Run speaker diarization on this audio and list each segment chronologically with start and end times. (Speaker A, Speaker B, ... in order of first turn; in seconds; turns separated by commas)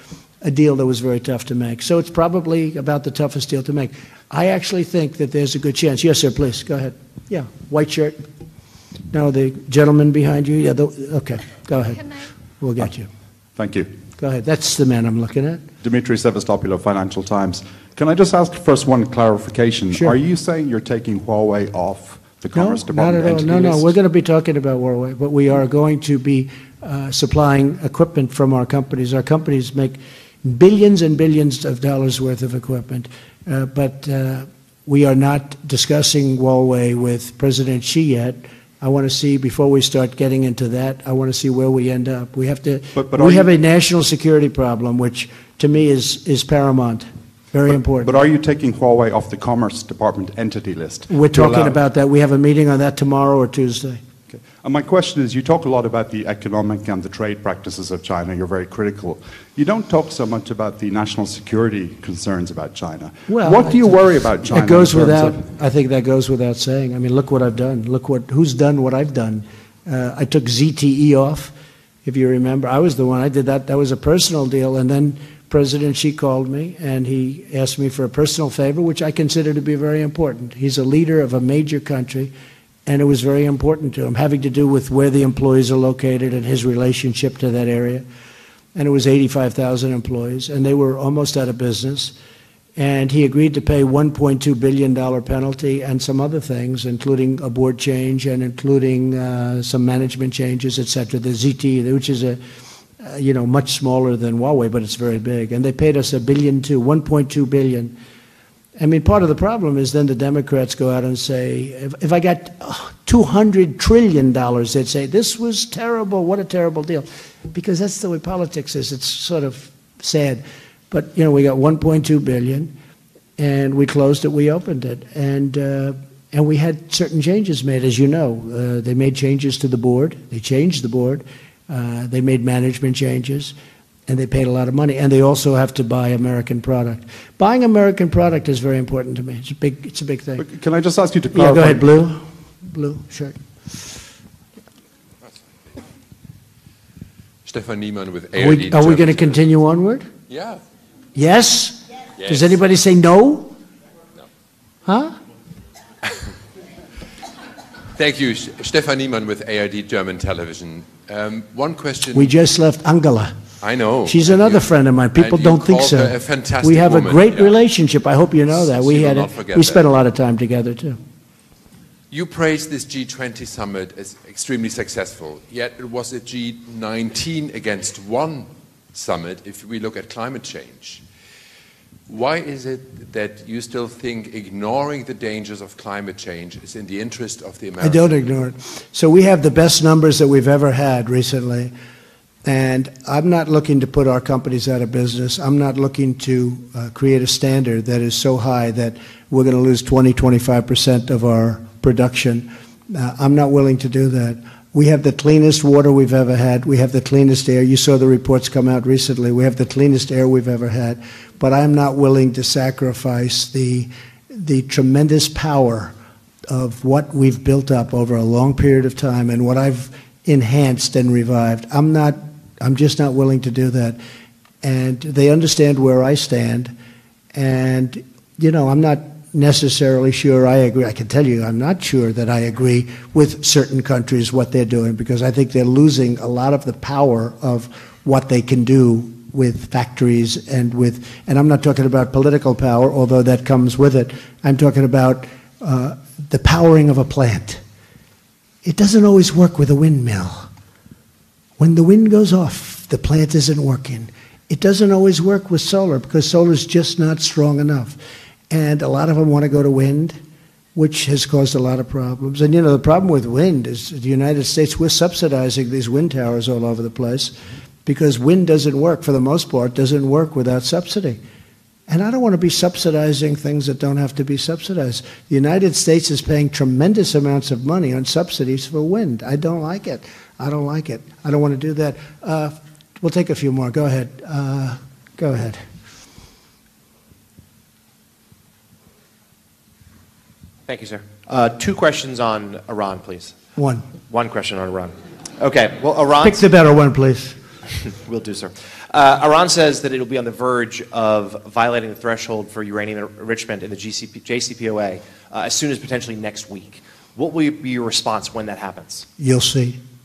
Speaker A: 0.4-8.2, Speaker A: 9.1-12.1, Speaker A: 12.6-13.1, Speaker B: 13.6-13.9, Speaker A: 14.2-15.6, Speaker B: 15.8-24.0, Speaker A: 22.5-48.2, Speaker B: 42.9-43.5, Speaker B: 47.7-51.8, Speaker A: 51.1-54.0, Speaker B: 54.3-65.5, Speaker A: 63.3-71.5, Speaker A: 72.0-82.3, Speaker A: 82.9-88.0, Speaker A: 88.8-92.1, Speaker A: 92.8-102.4, Speaker A: 103.0-107.9, Speaker A: 108.8-122.7, Speaker A: 123.4-133.5, Speaker A: 134.1-140.5, Speaker B: 140.4-141.9, Speaker A: 141.3-143.4, Speaker C: 147.5-149.5, Speaker A: 148.4-150.1, Speaker C: 150.3-150.6, Speaker A: 151.2-153.5, Speaker C: 152.2-152.6, Speaker A: 154.9-155.2, Speaker C: 158.0-162.3, Speaker A: 162.1-163.4, Speaker C: 163.6-167.6, Speaker A: 164.1-171.0, Speaker C: 168.5-169.9, Speaker C: 172.1-181.0, Speaker C: 182.1-188.2, Speaker A: 187.8-191.7, Speaker A: 192.4-215.9, Speaker A: 216.5-224.0, Speaker A: 224.6-226.7, Speaker A: 227.3-247.6, Speaker A: 248.6-250.5, Speaker A: 251.6-258.0, Speaker A: 258.5-260.2, Speaker A: 260.8-271.2, Speaker A: 271.9-285.6, Speaker D: 290.7-293.4, Speaker A: 293.6-293.9, Speaker D: 294.1-296.4, Speaker A: 296.2-297.4, Speaker D: 297.7-309.1, Speaker A: 309.2-309.8